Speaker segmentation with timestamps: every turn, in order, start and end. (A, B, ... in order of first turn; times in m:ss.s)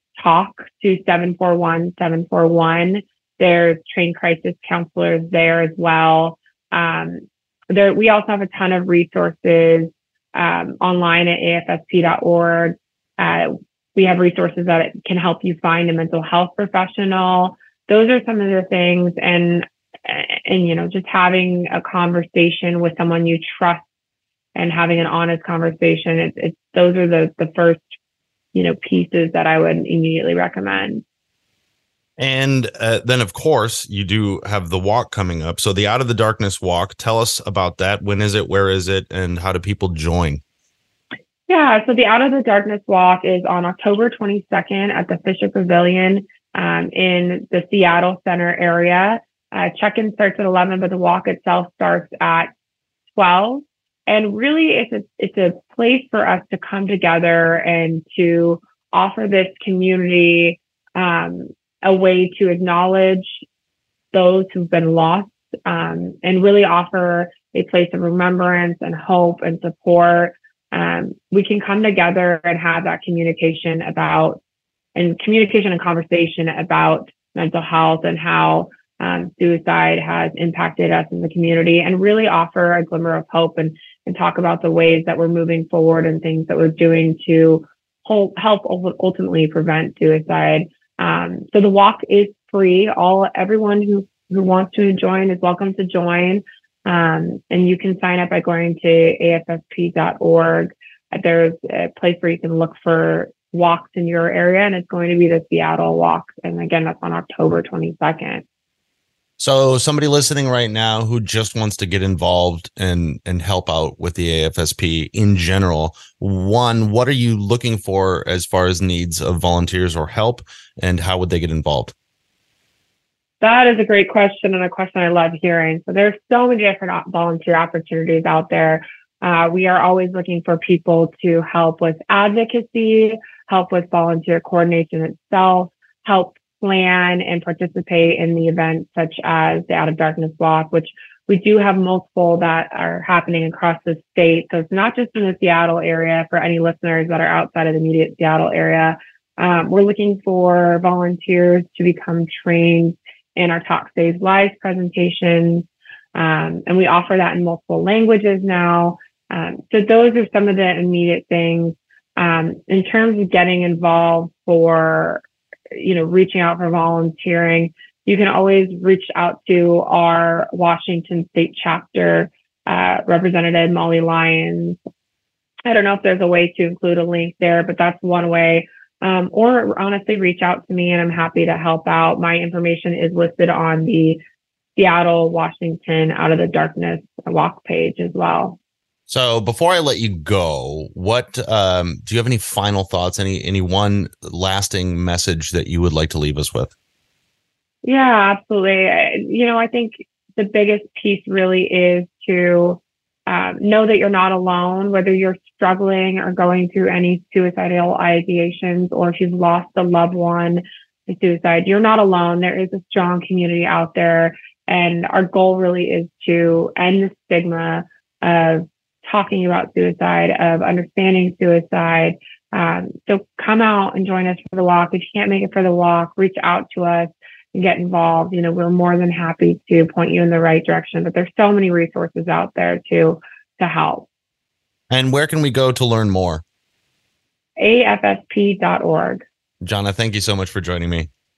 0:00.2-0:23.8 A
0:24.5-0:27.9 A
0:28.5-0:31.0 A
0:32.2-0:40.4 B
0:41.5-0:52.5 A
0:53.1-1:03.4 A
1:04.1-1:14.4 A
1:14.9-1:48.4 A
1:49.4-2:01.9 B
2:03.4-2:54.8 A
2:55.6-3:04.2 A
3:04.8-3:08.6 A
3:09.1-3:16.7 B
3:17.8-3:54.1 A
3:54.9-3:56.4 B
3:57.6-3:59.2 A
3:59.6-4:01.1 B